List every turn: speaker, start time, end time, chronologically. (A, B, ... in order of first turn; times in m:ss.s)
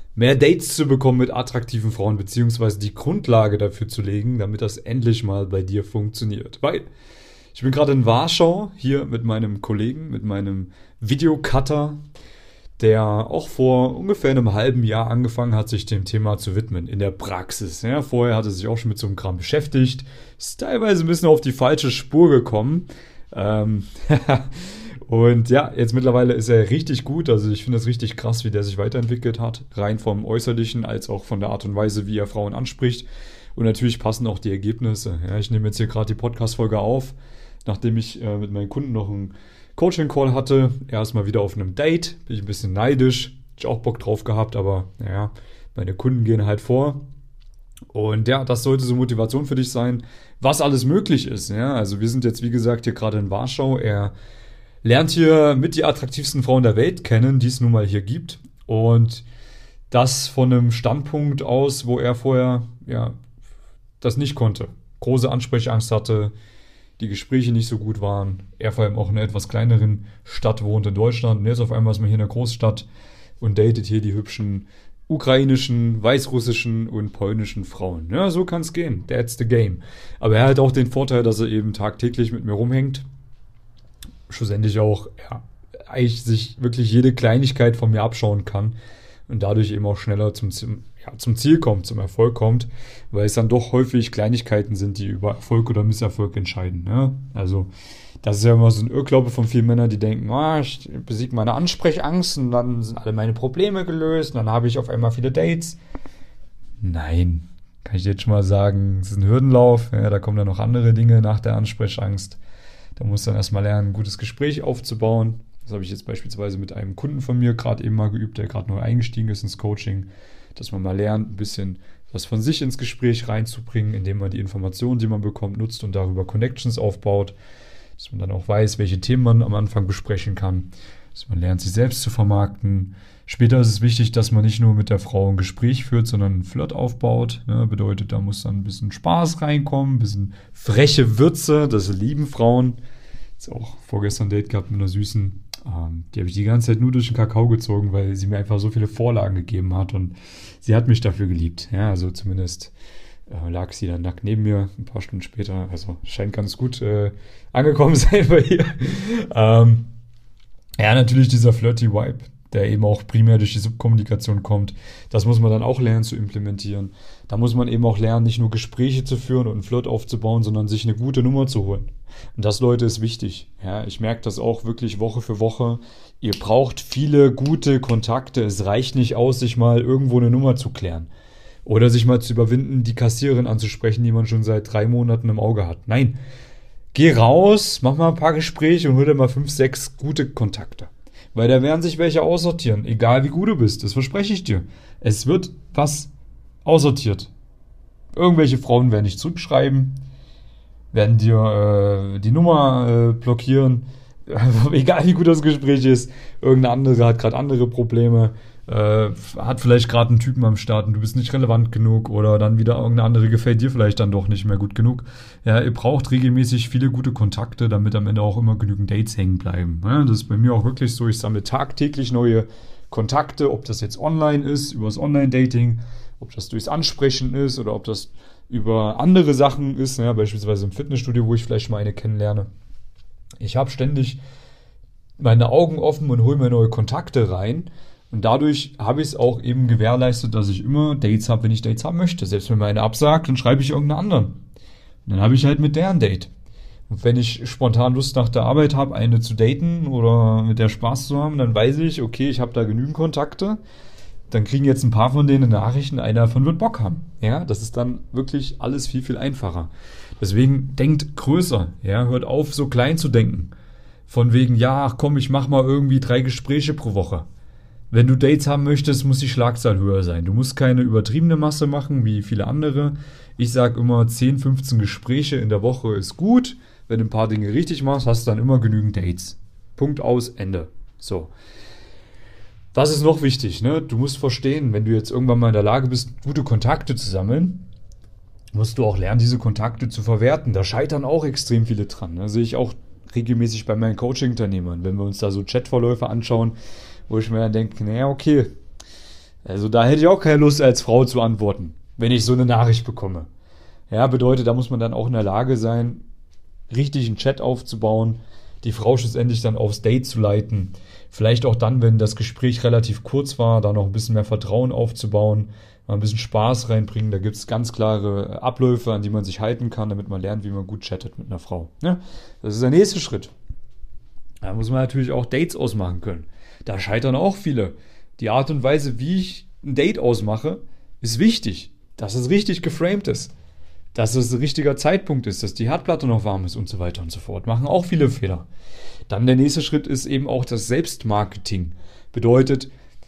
0:00.1-0:06.8 A
0:07.5-0:12.0 A
0:12.8-0:47.0 A
0:47.9-0:54.1 A
0:54.8-0:59.2 A
0:59.9-1:03.2 A
1:04.0-1:06.3 A
1:07.0-1:12.9 A
1:13.4-1:23.0 A
1:24.3-1:28.8 A
1:29.3-1:37.7 A
1:38.2-1:45.8 A
1:46.8-1:52.4 A
1:53.0-2:07.4 A
2:08.0-2:22.8 A
2:23.4-2:32.7 A
2:33.3-2:39.9 A
2:40.8-3:01.1 A
3:01.6-3:06.2 A
3:06.9-3:16.1 A
3:16.6-3:17.3 A
3:18.1-3:20.0 A
3:20.9-3:52.5 A
3:53.4-3:54.2 A
3:55.2-4:04.4 A
4:05.0-4:06.3 A
4:06.9-4:13.6 A
4:14.3-4:23.5 A
4:24.1-4:27.3 A
4:27.9-4:41.3 A
4:42.7-4:47.7 A
4:48.5-4:56.5 A
4:57.1-4:58.5 A
4:59.4-5:03.3 A
5:03.9-5:06.0 A
5:06.7-5:23.3 A
5:24.4-5:33.3 A
5:33.9-5:38.5 A
5:39.1-5:42.7 A